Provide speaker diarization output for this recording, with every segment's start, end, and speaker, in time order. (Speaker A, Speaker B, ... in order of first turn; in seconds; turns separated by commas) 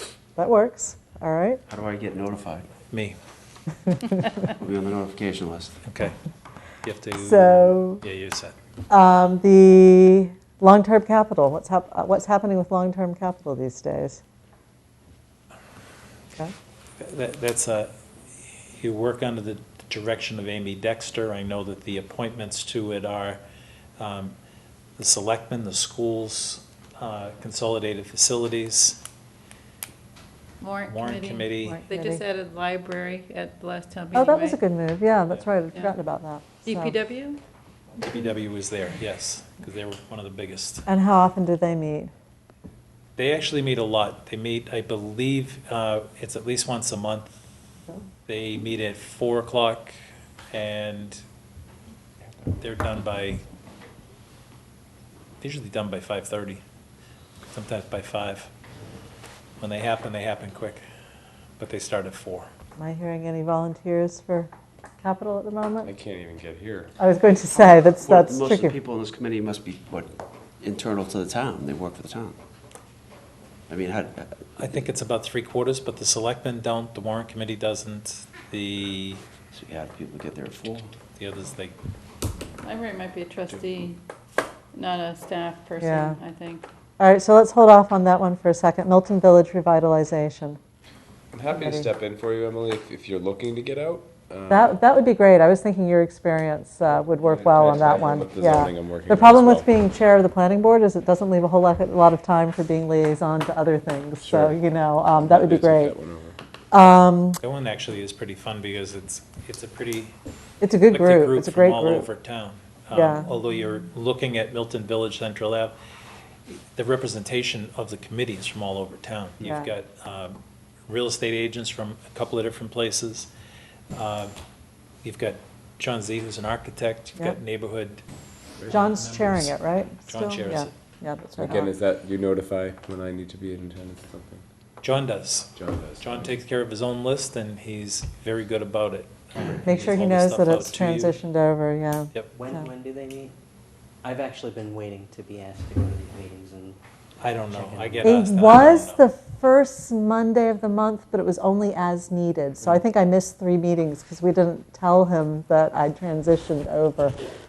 Speaker A: 0.3-1.6, Speaker B: 1.7-2.6, Speaker C: 2.9-3.1, Speaker B: 4.6-5.7, Speaker C: 5.8-6.2, Speaker C: 6.8-8.5, Speaker A: 7.2-8.0, Speaker A: 8.9-14.2, Speaker C: 17.0-17.9, Speaker C: 18.6-23.4, Speaker C: 24.0-24.3, Speaker C: 25.0-29.0, Speaker D: 30.6-34.6, Speaker C: 30.9-31.8, Speaker A: 31.6-32.2, Speaker A: 34.1-37.0, Speaker D: 36.6-37.4, Speaker C: 38.0-40.9, Speaker A: 40.9-42.1, Speaker C: 43.1-47.3, Speaker C: 48.3-49.9, Speaker C: 50.5-51.2, Speaker C: 52.6-53.4, Speaker C: 55.4-56.6, Speaker C: 57.5-58.5, Speaker C: 59.6-60.8, Speaker C: 61.6-62.5, Speaker A: 62.8-64.5, Speaker A: 65.0-65.9, Speaker E: 65.8-66.9, Speaker A: 67.0-68.7, Speaker B: 67.6-72.4, Speaker B: 73.7-74.3, Speaker C: 74.6-79.2, Speaker B: 79.5-80.9, Speaker C: 81.2-81.8, Speaker D: 82.6-84.0, Speaker D: 84.7-86.7, Speaker A: 85.8-86.2, Speaker A: 87.0-90.6, Speaker E: 91.3-94.8, Speaker A: 91.5-91.9, Speaker A: 94.5-105.9, Speaker E: 97.0-99.7, Speaker E: 104.2-104.6, Speaker E: 105.1-106.4, Speaker A: 106.7-107.4, Speaker C: 107.4-110.2, Speaker A: 110.6-112.1, Speaker C: 110.9-115.7, Speaker A: 112.9-113.3, Speaker C: 116.5-123.3, Speaker A: 119.4-119.7, Speaker C: 123.9-124.3, Speaker C: 125.0-128.0, Speaker C: 128.7-130.7, Speaker A: 128.7-131.7, Speaker E: 131.4-134.4, Speaker C: 134.8-141.2, Speaker E: 135.5-136.3, Speaker A: 139.6-142.6, Speaker F: 142.3-143.3, Speaker F: 144.0-146.8, Speaker C: 147.2-149.0, Speaker F: 147.5-148.1, Speaker A: 148.0-157.1